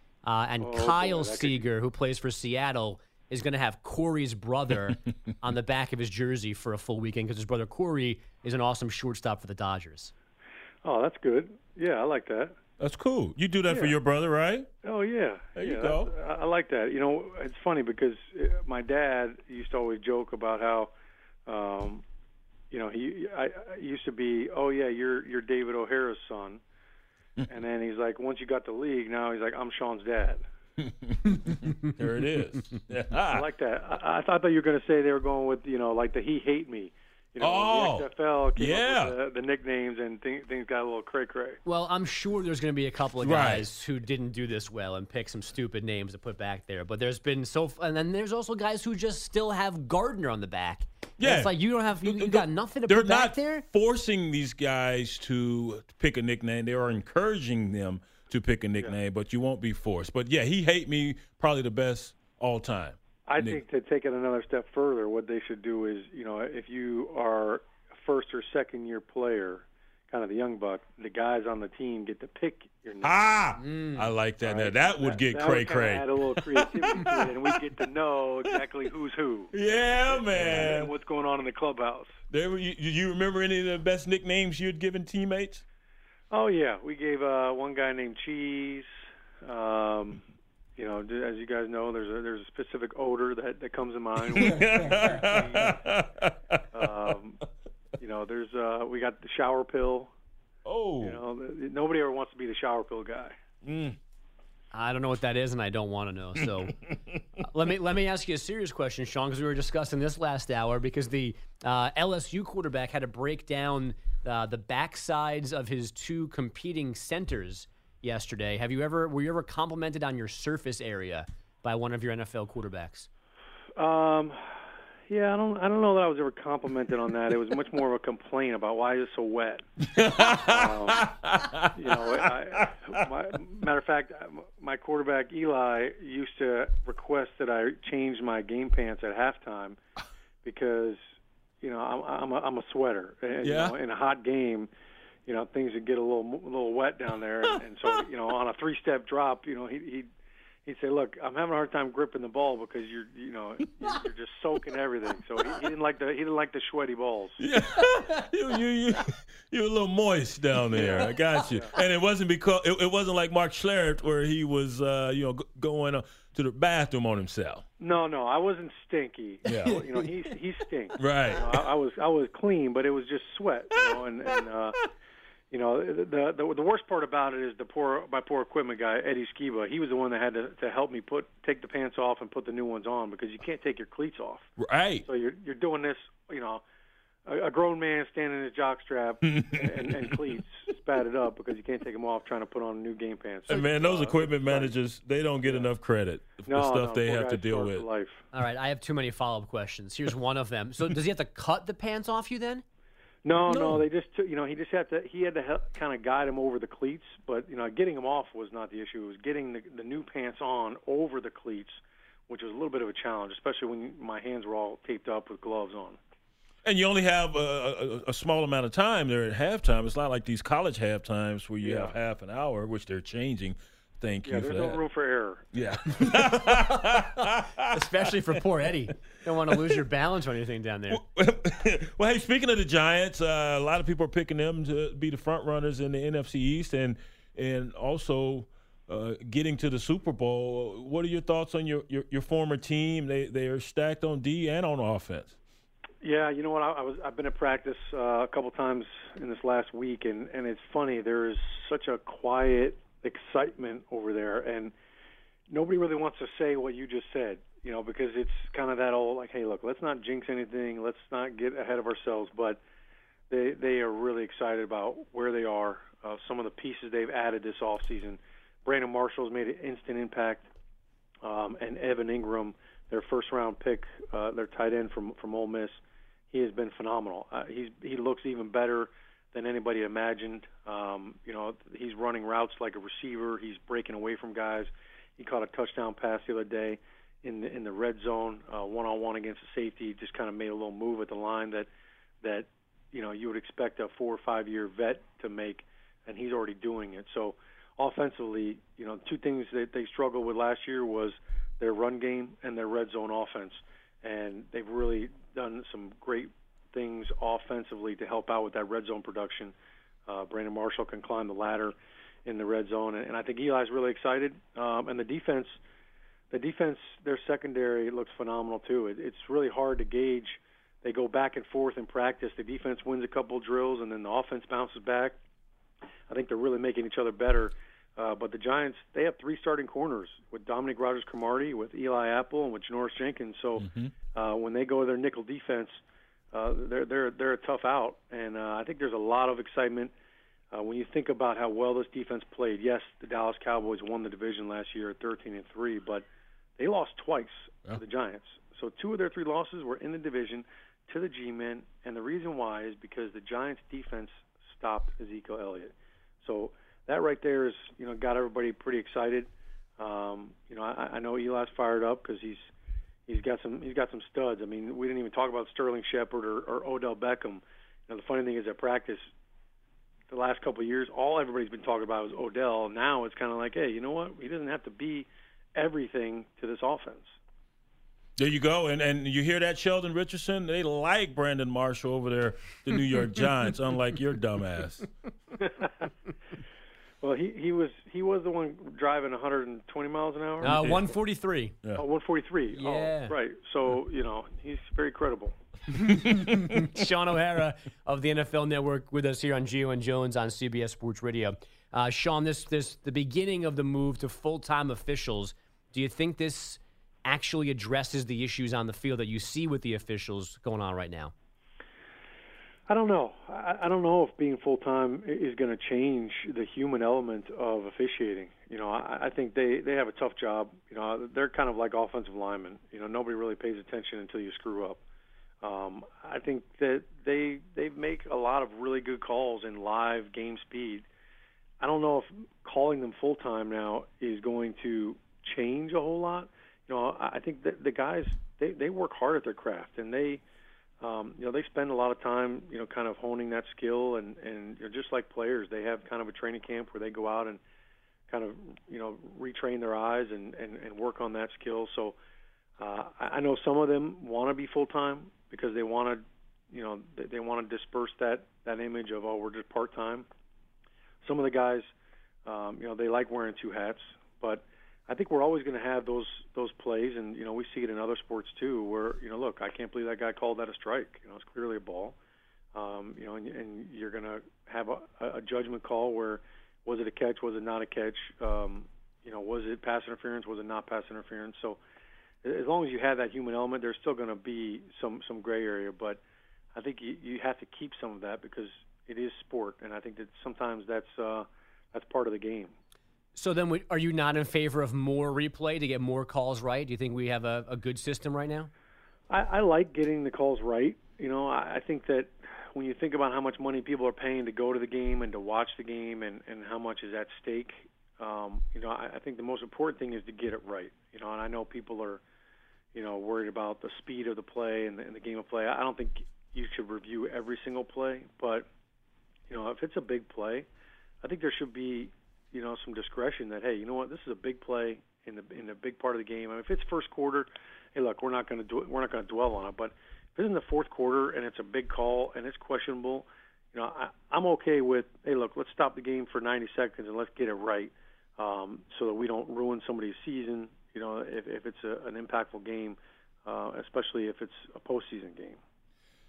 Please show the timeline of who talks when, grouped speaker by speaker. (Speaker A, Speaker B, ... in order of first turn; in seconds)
Speaker A: 0.2-10.1, 41.6-53.6, 73.6-74.1, 104.7-106.7, 107.4-123.1, 160.8-161.3, 169.5-170.2, 198.3-202.6, 203.5-203.8, 227.7-231.0, 390.4-391.5, 392.5-393.1, 395.7-411.1, 493.1-498.5
Speaker B: 0.6-1.7, 10.8-12.6, 13.7-14.0, 14.8-20.9, 21.5-22.0, 22.7-26.6, 27.5-30.4, 33.3-41.6, 63.3-73.3, 74.4-82.2, 86.3-88.9, 89.4-90.2, 90.8-95.8, 96.7-97.4, 98.0-100.1, 101.0-103.3, 123.8-129.7, 130.4-131.1, 131.8-139.8, 140.4-141.0, 141.6-144.7, 145.3-150.1, 150.7-157.4, 160.7-161.7, 167.8-174.8, 175.5-184.5, 185.1-186.6, 187.3-194.8, 195.4-195.7, 196.5-198.2, 203.2-216.0, 221.6-222.0, 224.2-225.5, 246.0-254.7, 255.5-262.6, 263.3-270.5, 271.2-275.8, 276.3-291.7, 292.2-309.6, 310.1-315.6, 316.3-325.2, 326.1-335.8, 336.3-339.9, 340.5-346.1, 346.6-362.5, 363.1-369.1, 370.1-377.2, 385.4-385.7, 387.0-390.6, 391.8-395.4, 412.7-424.8, 425.4-430.9, 431.6-440.2, 440.8-447.4, 448.1-452.0, 452.6-460.1, 461.0-461.7, 462.3-472.0, 472.5-481.6, 482.2-486.0, 486.5-492.5, 499.1-512.0, 512.7-518.5, 519.3-520.5, 521.0-545.4
Speaker C: 12.8-14.7, 15.6-16.1, 30.8-33.5, 37.4-39.2, 43.2-43.6, 51.2-63.6, 73.0-77.6, 79.5-80.9, 82.3-85.6, 94.2-97.1, 100.7-101.2, 103.6-104.0, 106.6-107.2, 129.9-133.1, 143.4-143.8, 157.4-167.6, 169.5-169.8, 171.0-171.5, 184.6-185.1, 189.2-190.2, 193.5-197.9, 216.6-224.8, 225.5-227.8, 230.9-245.4, 333.6-333.9, 378.2-384.9, 390.4-390.9